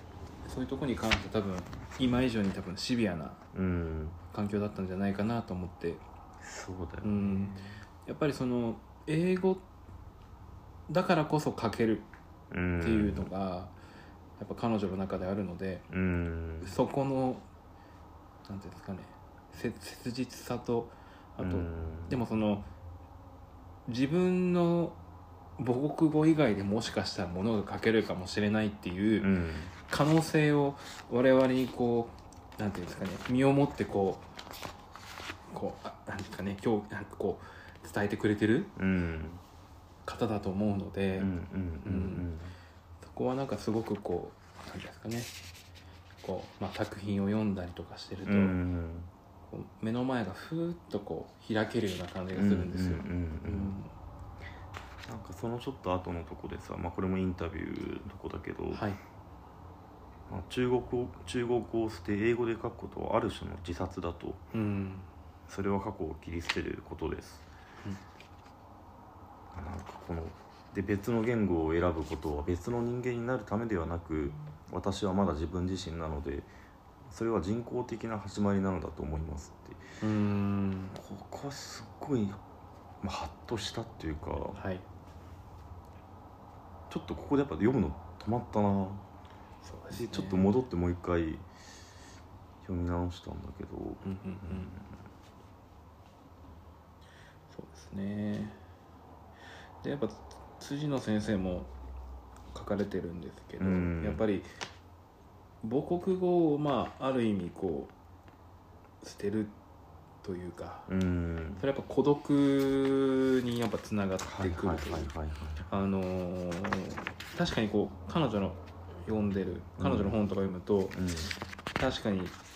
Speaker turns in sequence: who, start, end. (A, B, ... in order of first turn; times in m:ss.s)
0:00.4-0:03.4 A
0:03.5-0:04.2 B
0:04.3-0:06.0 A
0:06.4-0:07.8 B
0:07.0-0:09.6 A
0:10.9-0:12.1 A
0:12.5-0:13.3 B
0:12.8-0:13.7 A
0:14.4-0:15.9 A
0:15.9-0:16.8 B
0:16.6-0:17.4 A
0:18.4-0:22.7 A
0:21.4-0:22.2 B
0:23.9-0:25.0 A
0:25.6-0:29.3 A
0:29.2-0:29.7 B
0:29.9-0:34.3 A
0:35.5-0:38.7 A
0:38.8-0:39.4 B
0:40.0-0:41.3 A
0:41.2-0:42.6 B
0:41.8-0:42.3 A
0:43.0-0:45.3 A
0:46.2-0:48.6 A
0:48.3-0:49.1 B
0:49.5-0:53.9 A
0:52.3-0:53.7 B
0:55.0-0:58.8 B
0:58.7-0:59.0 A
1:00.3-1:04.4 B
1:04.5-1:05.1 A
1:05.5-1:07.4 B
1:09.5-1:16.5 B
1:17.1-1:19.8 B
1:20.0-1:21.0 A
1:20.9-1:22.4 B
1:23.0-1:24.6 B
1:24.6-1:24.8 A
1:26.9-1:29.0 B
1:29.6-1:30.5 A
1:29.9-1:31.4 B
1:32.6-1:35.0 B
1:34.0-1:34.7 A
1:37.5-1:38.6 A
1:39.8-1:41.7 A
1:42.5-1:44.5 A
1:43.6-1:44.3 B
1:45.6-1:47.9 A
1:49.0-1:49.5 A
1:50.2-1:50.9 A
1:50.9-1:51.6 B
1:51.6-1:55.1 A
1:54.2-1:55.6 B
1:55.7-2:01.0 A
1:59.8-2:00.2 B
2:00.9-2:01.3 B
2:01.7-2:02.4 A